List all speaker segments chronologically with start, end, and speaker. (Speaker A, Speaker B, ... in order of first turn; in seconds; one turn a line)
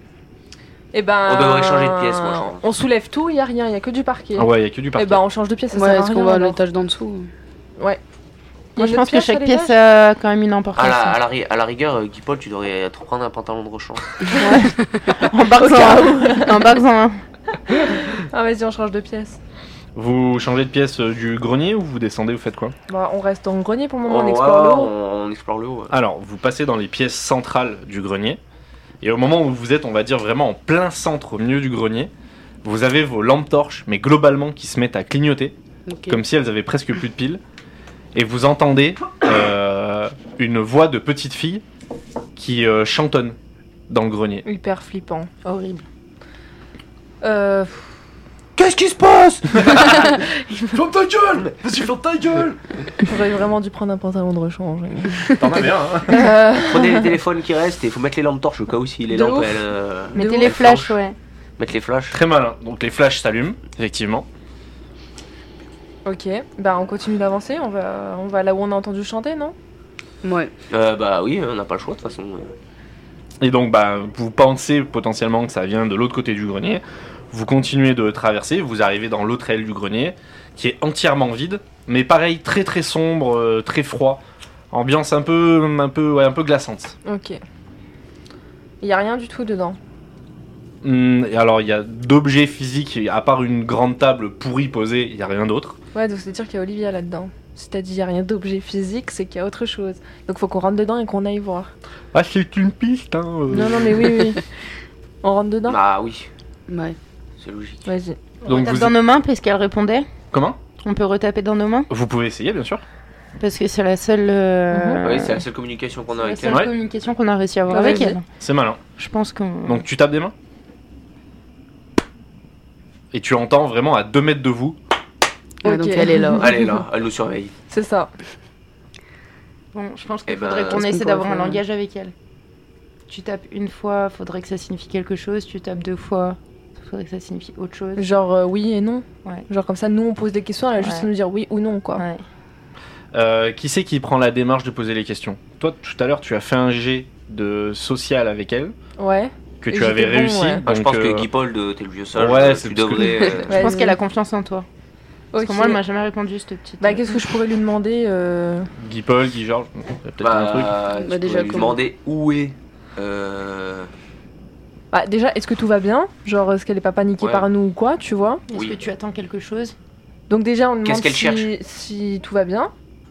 Speaker A: 0.9-6.6
Speaker B: 1.2-2.7
Speaker C: 4.4-5.2
Speaker D: 5.7-7.3
Speaker A: 8.8-9.7
Speaker E: 8.8-11.2
Speaker B: 10.8-14.2
Speaker A: 14.3-14.7
Speaker E: 14.4-17.2
Speaker A: 15.6-16.6
Speaker A: 17.7-19.4
Speaker C: 19.9-22.8
Speaker A: 22.9-24.9
Speaker B: 24.1-25.9
Speaker C: 25.9-28.4
Speaker C: 29.0-32.1
Speaker C: 32.6-35.6
Speaker D: 35.9-36.2
Speaker C: 36.1-37.4
Speaker C: 38.1-41.6
Speaker C: 42.4-43.4
Speaker C: 43.9-44.5
Speaker A: 44.5-45.3
Speaker E: 45.4-45.8
Speaker A: 47.2-47.9
Speaker C: 48.6-52.7
Speaker A: 53.0-55.4
Speaker C: 55.4-56.3
Speaker A: 56.1-57.1
Speaker B: 56.6-61.0
Speaker A: 59.1-60.6
Speaker E: 60.1-61.2
Speaker B: 61.6-62.2
Speaker C: 62.1-64.3
Speaker A: 66.0-69.5
Speaker D: 70.2-70.5
Speaker B: 70.7-72.5
Speaker C: 73.4-87.0
Speaker A: 87.0-87.4
Speaker A: 88.8-89.8
Speaker C: 90.8-95.8
Speaker A: 95.9-101.7
Speaker C: 102.1-104.3
Speaker A: 103.5-104.4
Speaker A: 105.2-105.8
Speaker B: 105.7-106.3
Speaker D: 106.7-107.0
Speaker B: 107.4-107.9
Speaker A: 107.9-108.2
Speaker C: 108.5-109.0
Speaker E: 108.5-110.1
Speaker C: 110.3-110.6
Speaker E: 110.8-111.9
Speaker C: 111.9-112.8
Speaker E: 113.4-115.4
Speaker A: 114.7-115.0
Speaker B: 115.0-116.6
Speaker E: 116.2-118.3
Speaker C: 116.5-116.7
Speaker A: 117.7-118.2
Speaker C: 118.4-118.8
Speaker E: 119.0-119.8
Speaker C: 119.7-120.3
Speaker C: 123.1-124.8
Speaker D: 125.6-126.6
Speaker A: 125.6-126.8
Speaker B: 126.4-127.5
Speaker A: 127.7-128.1
Speaker E: 129.7-132.1
Speaker B: 130.3-130.8
Speaker D: 130.7-131.6
Speaker E: 133.1-138.0
Speaker A: 138.0-142.1
Speaker E: 140.8-141.1
Speaker C: 143.1-148.8
Speaker A: 149.0-150.6
Speaker C: 149.6-151.3
Speaker B: 150.7-153.7
Speaker C: 152.2-153.4
Speaker D: 153.2-153.9
Speaker E: 153.5-154.7
Speaker A: 153.5-153.9
Speaker A: 155.3-155.8
Speaker E: 155.4-157.1
Speaker A: 156.8-158.7
Speaker C: 158.8-160.7
Speaker B: 160.2-163.9
Speaker D: 160.9-161.8
Speaker A: 164.9-168.4
Speaker B: 167.2-167.4
Speaker E: 168.5-169.8
Speaker B: 168.5-168.8
Speaker A: 170.3-172.7
Speaker B: 170.8-171.5